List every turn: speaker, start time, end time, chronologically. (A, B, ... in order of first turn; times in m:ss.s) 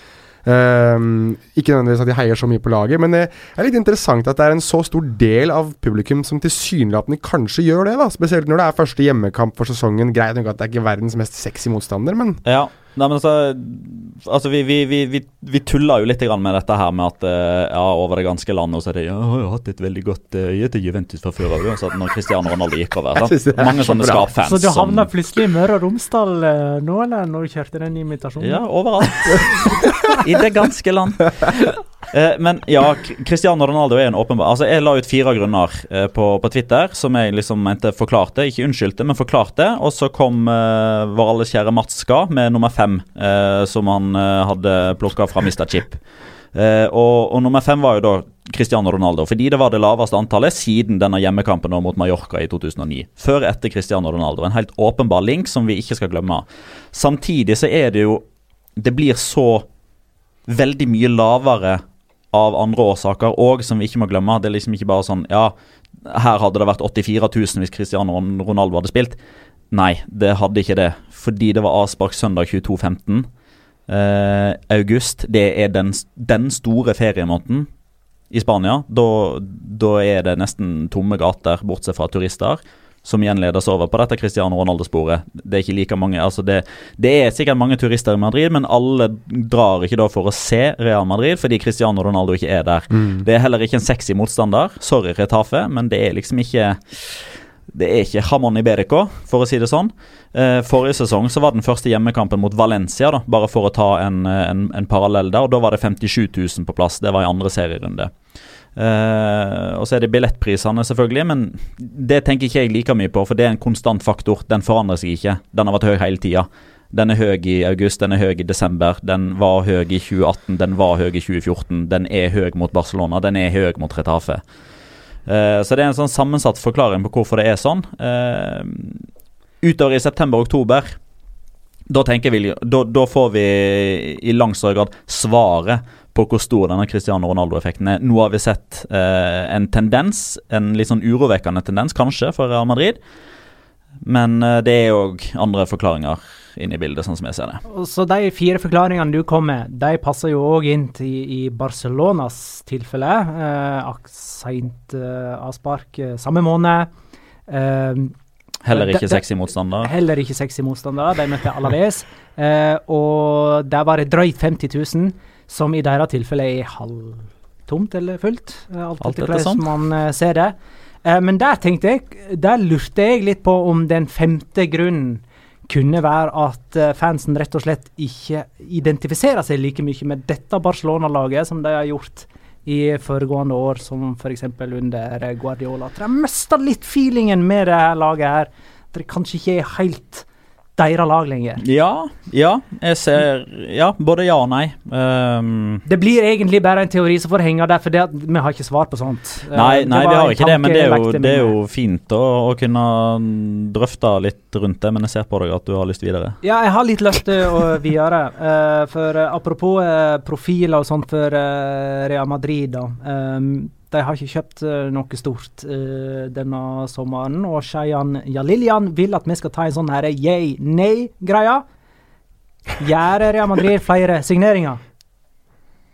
0:00.4-0:12.4 A
0:12.4-0:25.1 B
0:23.2-0:24.3 A
0:24.4-0:28.6 C
0:28.4-0:46.0 B
0:46.5-0:58.2 B
0:58.8-0:59.7 B
1:00.5-1:01.8 B
1:02.3-1:09.2 B
1:09.7-1:13.3 B
1:13.9-1:17.7 B
1:18.3-1:48.1 B
1:33.0-1:33.2 A
1:48.8-2:04.4 B
2:05.3-2:09.1 B
2:09.6-2:11.0 B
2:11.9-2:23.0 B
2:24.0-2:27.6 B
2:27.7-2:36.9 C
2:37.5-2:38.1 C
2:38.6-2:39.9 B
2:38.7-2:39.2 C
2:39.8-3:10.3 C
2:49.0-2:49.7 B
3:10.8-3:11.6 C
3:11.6-3:15.8 B
3:15.9-3:21.5 C
3:19.5-3:26.4 B
3:26.4-3:41.6 C
3:42.8-3:44.8 C